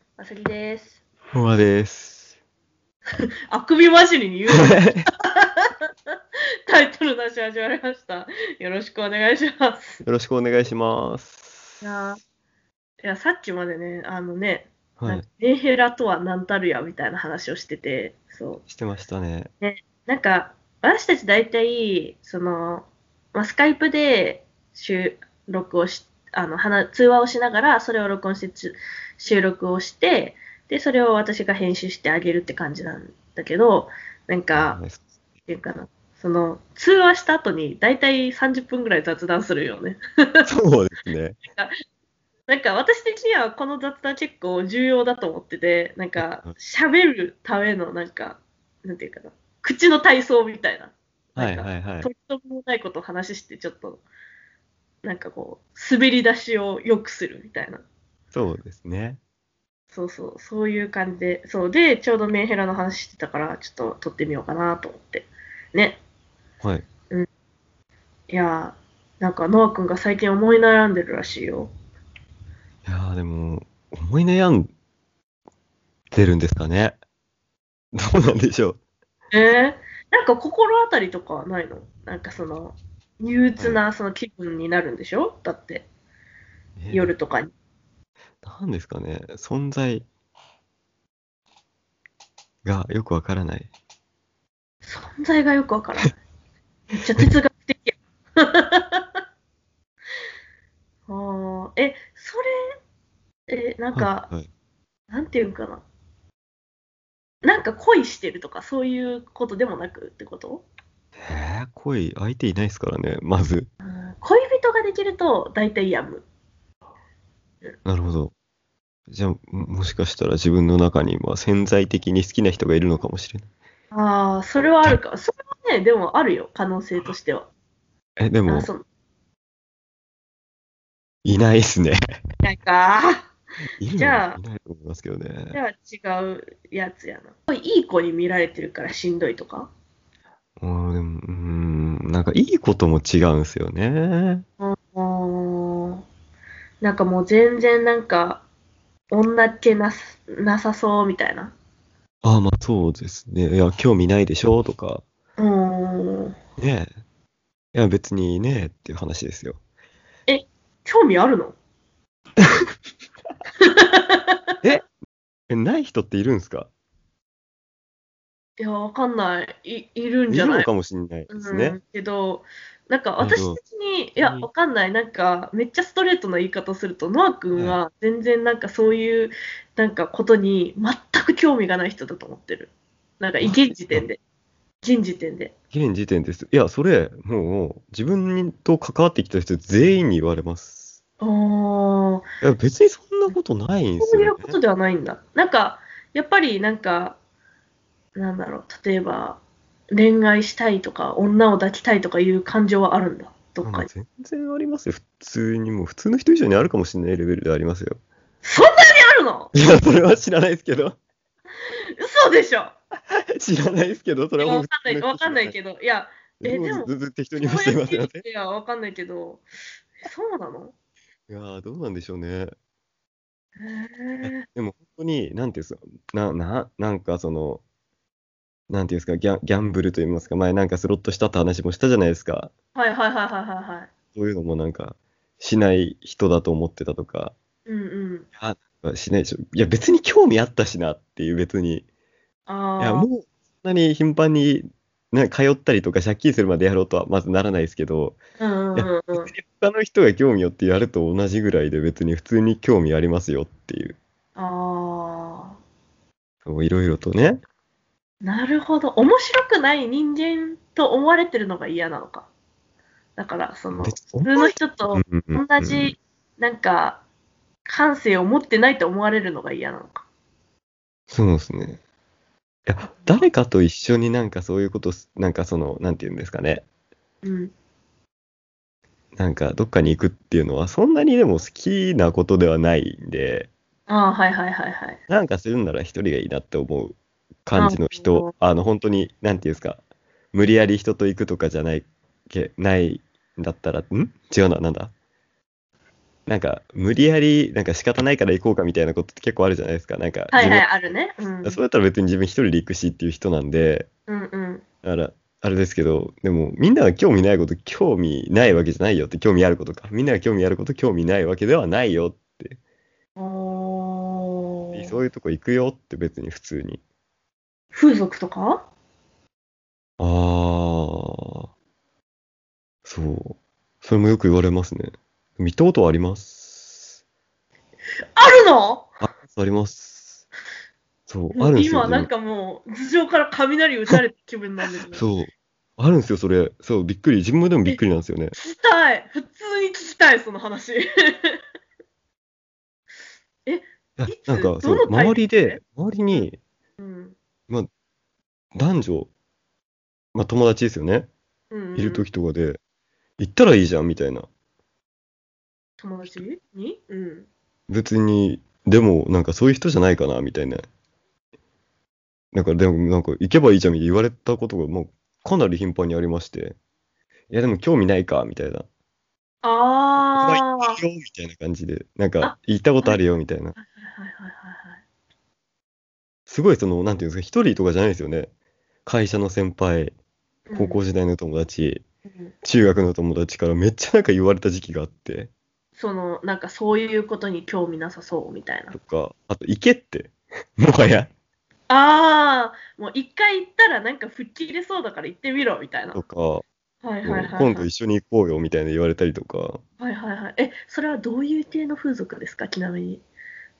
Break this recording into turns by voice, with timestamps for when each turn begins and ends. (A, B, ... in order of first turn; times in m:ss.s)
0:00.2-0:01.0 A
0:01.3-0:02.3 B
0:03.5-0:05.7 A
0:04.6-0:05.0 B
0:06.7-0:10.0 A
0:10.0-0:11.8 B
0:11.8-0:12.2 A
0:13.0-0:18.6 A
0:15.0-0:15.2 B
0:18.7-0:19.5 B
0:19.6-0:34.8 A
0:34.6-0:35.1 B
0:35.5-0:40.4 A
0:40.4-0:41.4 B
0:42.5-0:54.0 A
0:46.2-0:46.5 B
0:51.4-0:52.1 B
0:55.0-0:57.8 A
0:58.3-0:59.2 B
0:59.9-1:06.0 A
1:08.3-1:11.7 A
1:12.8-1:14.7 B
1:16.1-1:17.0 B
1:18.0-1:18.8 B
1:19.3-1:25.8 A
1:23.6-1:23.8 B
1:26.8-1:27.1 B
1:26.9-1:27.5 A
1:28.4-1:30.1 B
1:32.6-1:33.7 B
1:34.8-1:36.1 A
1:36.9-1:39.0 A
1:41.1-1:42.5 A
1:43.5-1:44.3 A
1:43.9-1:44.5 B
1:45.1-1:45.8 A
1:47.4-1:50.6 A
1:51.2-1:53.7 B
1:53.8-1:56.2 A
1:57.8-1:58.3 B
1:59.1-2:03.4 B
2:03.9-2:07.5 A
2:08.2-2:08.7 B
2:08.4-2:08.8 A
2:11.2-2:12.0 B
2:12.4-2:13.3 A
2:13.8-2:15.6 B
2:14.0-2:14.4 A
2:15.5-2:19.7 A
2:20.6-2:24.4 B
2:24.6-2:26.0 A
2:26.8-2:28.4 A
2:29.1-2:31.5 A
2:32.2-2:35.0 B
2:35.4-2:36.3 A
2:36.6-2:36.9 B
2:37.7-2:39.6 B
2:40.3-2:41.5 A
2:43.6-2:44.5 A
2:45.5-2:46.7 B
2:48.6-2:50.7 A
2:50.3-2:51.8 B
2:51.3-3:04.2 A
2:53.2-2:53.6 B
2:54.2-2:54.5 B
2:57.5-2:57.8 B
3:03.4-3:04.0 B
3:04.8-3:05.5 A
3:05.7-3:11.0 B
3:11.2-3:12.2 A
3:12.4-3:14.6 B
3:14.0-3:17.2 A
3:18.1-3:19.4 A
3:19.9-3:23.9 A
3:23.6-3:28.0 B
3:28.4-3:29.5 A
3:29.5-3:31.0 B
3:32.0-3:32.7 A
3:33.1-3:35.5 B
3:34.4-3:39.4 A
3:36.4-3:38.2 B
3:40.0-3:40.7 A
3:41.3-3:42.5 B
3:43.6-3:44.4 A
3:44.2-3:47.6 B
3:48.7-3:52.5 B
3:52.7-3:53.9 A
3:54.1-3:57.3 B
3:57.6-3:58.3 A
3:58.4-4:01.8 B
4:02.5-4:03.1 A
4:02.8-4:08.2 B
4:08.4-4:09.3 A
4:08.7-4:14.0 B
4:14.3-4:15.6 A
4:16.4-4:17.4 B
4:18.2-4:22.3 A
4:23.2-4:27.0 A
4:23.8-4:25.9 B
4:27.6-4:30.0 A
4:31.1-4:31.8 B
4:32.7-4:36.6 B
4:33.0-4:33.2 A
4:37.2-4:37.5 A
4:39.2-4:43.5 B
4:43.9-4:45.0 A
4:45.1-4:49.8 B
4:47.5-4:48.3 A
4:50.3-4:54.9 B
4:56.3-5:00.8 B
5:00.3-5:01.6 A
5:01.4-5:03.9 B
5:04.1-5:04.6 A
5:04.8-5:12.6 B
5:13.2-5:15.0 A
5:14.7-5:16.8 B
5:17.7-5:18.7 A
5:20.0-5:21.5 B
5:22.8-5:27.0 B
5:28.2-5:28.9 A
5:29.0-5:30.2 B
5:31.1-5:32.1 B
5:31.3-5:35.1 A
5:34.9-5:38.4 B
5:38.4-5:41.4 A
5:43.4-5:46.3 A
5:44.0-5:46.4 B
5:46.8-5:47.1 A
5:48.5-5:49.1 B
5:50.1-5:51.1 B
5:51.5-5:52.1 A
5:51.7-5:52.6 B
5:53.2-5:54.3 B
5:55.8-5:57.3 A
5:57.7-6:00.6 B
6:02.3-6:06.6 B
6:07.3-6:08.6 B
6:09.4-6:10.8 A
6:10.2-6:13.6 B
6:12.2-6:13.0 A
6:13.6-6:14.8 A
6:16.3-6:18.3 B
6:18.8-6:19.9 B
6:20.5-6:20.8 A
6:20.5-6:21.8 B
6:22.1-6:22.3 A
6:22.4-6:25.3 B
6:25.8-6:28.8 A
6:28.7-6:31.1 B
6:31.7-6:36.0 A
6:35.9-6:36.4 B
6:36.8-6:37.7 A
6:37.0-6:39.6 B
6:39.8-6:43.0 A